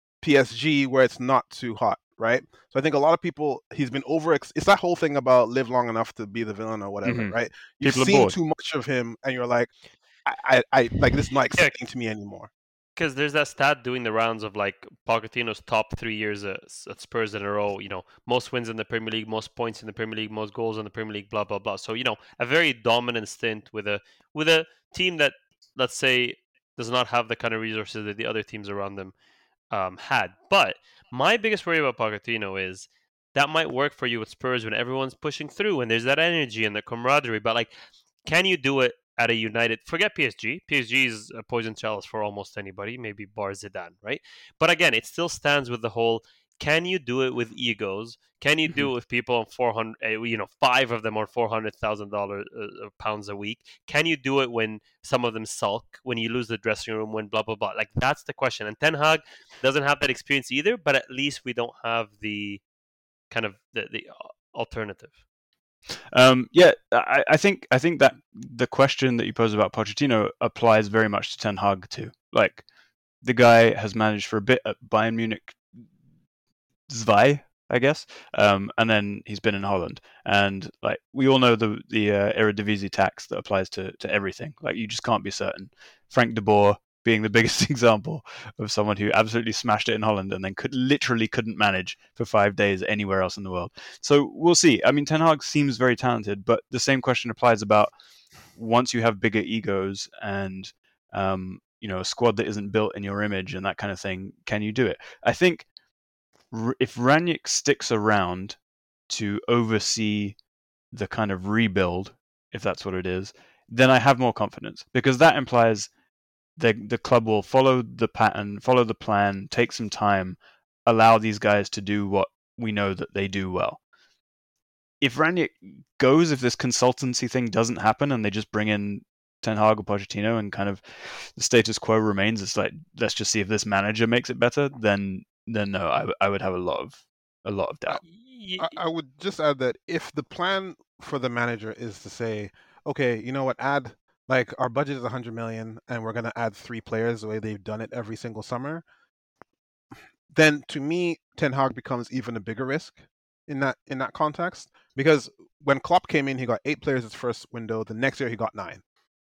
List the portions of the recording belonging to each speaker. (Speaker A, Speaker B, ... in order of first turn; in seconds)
Speaker A: 0.2-9.7, 10.2-12.5, 138.6-148.8, 150.3-158.8
Speaker B: 7.0-8.4, 66.1-72.7, 73.2-75.9, 76.9-97.9, 98.5-105.7, 106.5-108.6, 109.1-110.4, 110.9-115.9, 116.6-123.8, 125.0-138.0
Speaker C: 13.0-29.1, 29.7-37.7, 38.2-62.6, 63.3-65.2, 138.0-138.8